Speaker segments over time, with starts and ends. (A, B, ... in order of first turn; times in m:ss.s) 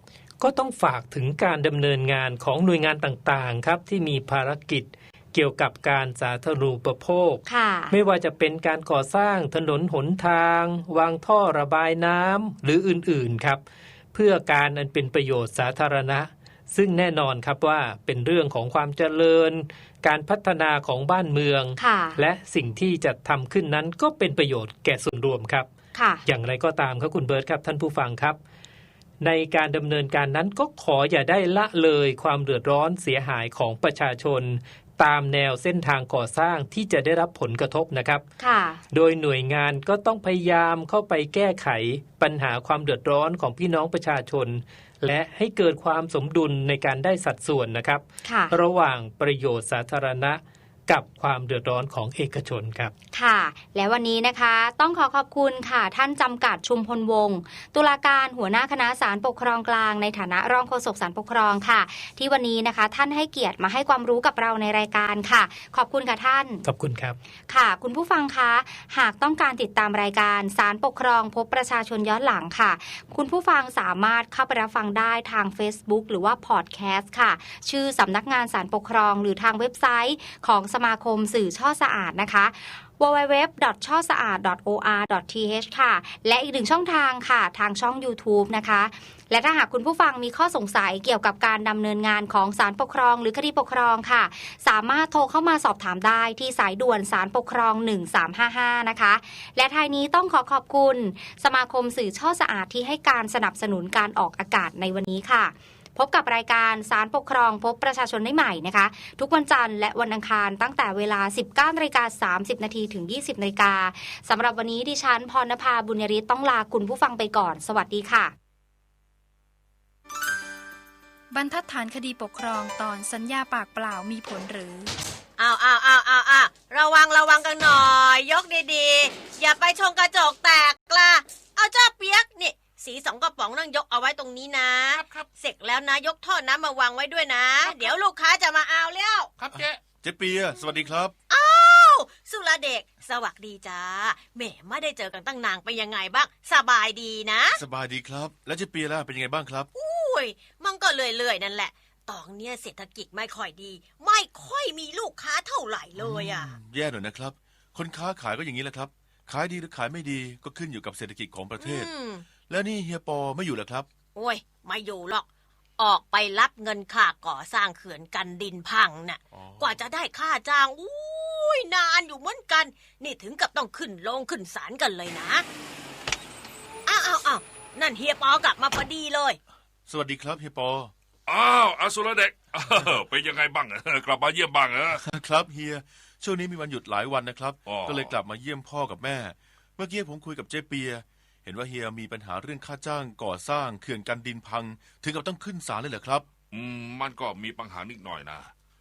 0:00.4-0:13.6 A
0:07.5-0:08.0 B
0:14.1-0:25.7 A
0:21.8-0:22.2 B
0:25.9-0:26.2 B
0:26.3-0:28.4 A
0:29.2-0:38.2 A
0:38.4-0:38.8 B
0:38.9-0:52.9 A
0:48.3-0:48.5 B
0:53.1-1:06.6 B
1:06.6-1:07.2 A
1:07.5-1:58.4 B
2:01.3-2:04.9 C
2:05.4-2:19.3 D
2:19.5-2:21.2 E
2:21.3-2:27.6 D
2:27.5-2:29.7 E
2:29.7-2:36.6 D
2:36.0-2:41.9 E
2:41.6-2:42.3 D
2:42.4-2:43.9 E
2:44.2-2:45.3 D
2:45.8-2:55.4 D
2:49.3-2:49.8 E
2:56.9-2:59.4 D
2:59.9-3:00.9 E
3:01.3-3:05.0 F
3:04.9-3:16.3 E
3:07.7-3:08.1 F
3:16.5-3:18.5 F